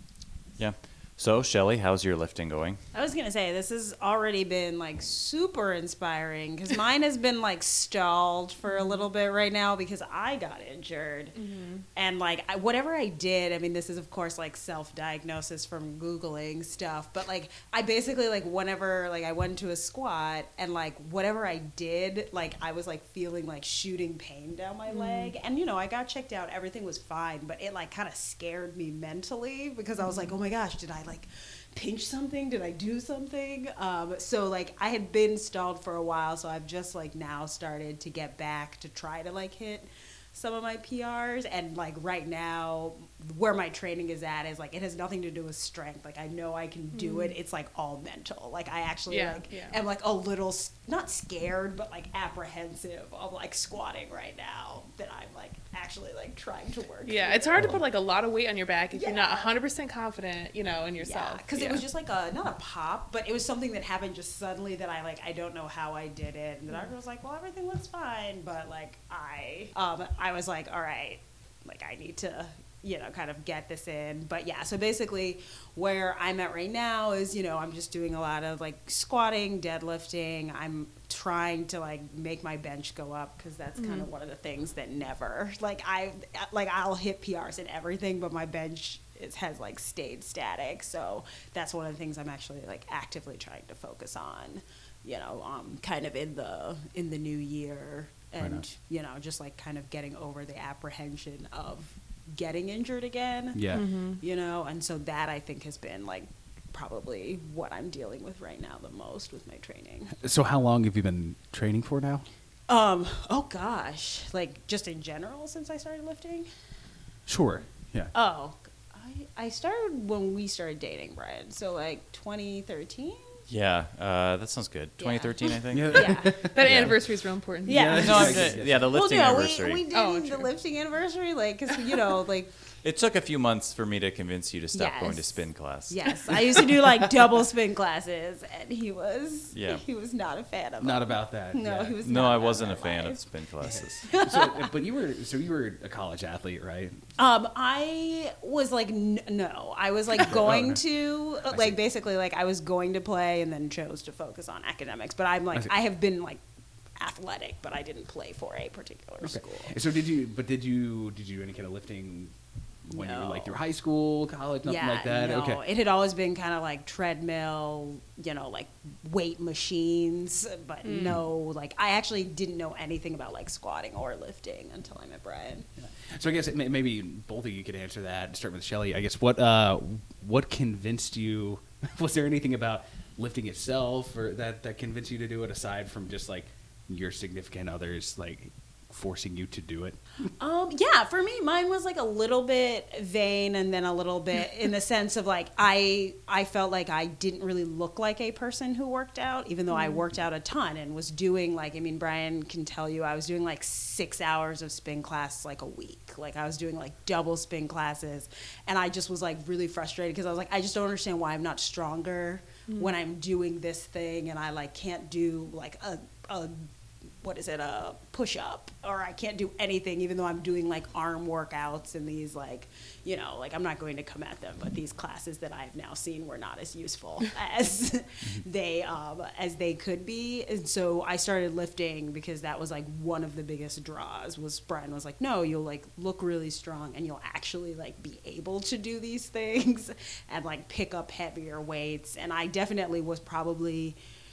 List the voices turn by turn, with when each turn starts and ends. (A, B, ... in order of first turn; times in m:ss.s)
0:00.6-0:02.8 A
0:02.9-0:11.3 B
0:08.7-0:09.0 C
0:11.3-0:11.8 C
0:11.9-0:57.7 B
0:24.9-0:25.3 C
0:30.0-0:30.3 C
0:46.9-0:47.3 C
0:49.1-0:49.8 C
0:57.0-1:01.8 C
0:58.9-0:59.5 B
1:01.0-1:50.1 B
1:23.8-1:24.1 C
1:38.4-1:38.6 D
1:43.5-1:43.8 D
1:43.7-1:44.2 C
1:50.2-1:52.2 D
1:52.7-1:56.5 B
1:57.2-1:58.1 D
1:58.1-2:03.4 B
2:03.5-2:06.9 A
2:05.0-2:06.3 B
2:05.7-2:07.0 D
2:06.5-2:08.3 C
2:07.6-2:08.9 D
2:07.6-2:12.5 B
2:07.8-2:09.8 A
2:09.9-2:10.5 C
2:12.8-2:16.7 A
2:14.7-2:23.2 B
2:19.5-2:19.8 A
2:20.8-2:22.3 D
2:22.0-2:24.0 A
2:23.6-2:27.0 D
2:23.7-2:24.7 B
2:27.2-2:36.4 B
2:30.2-2:30.8 D
2:31.5-2:31.8 D
2:37.0-2:39.7 B
2:39.2-2:42.3 D
2:42.8-2:45.6 D
2:42.9-2:43.6 B
2:44.6-2:55.7 B
2:50.8-2:51.2 C
2:55.8-3:10.0 D
3:10.4-3:36.7 B
3:19.7-3:20.0 C
3:32.7-3:32.9 C
3:37.2-4:04.0 B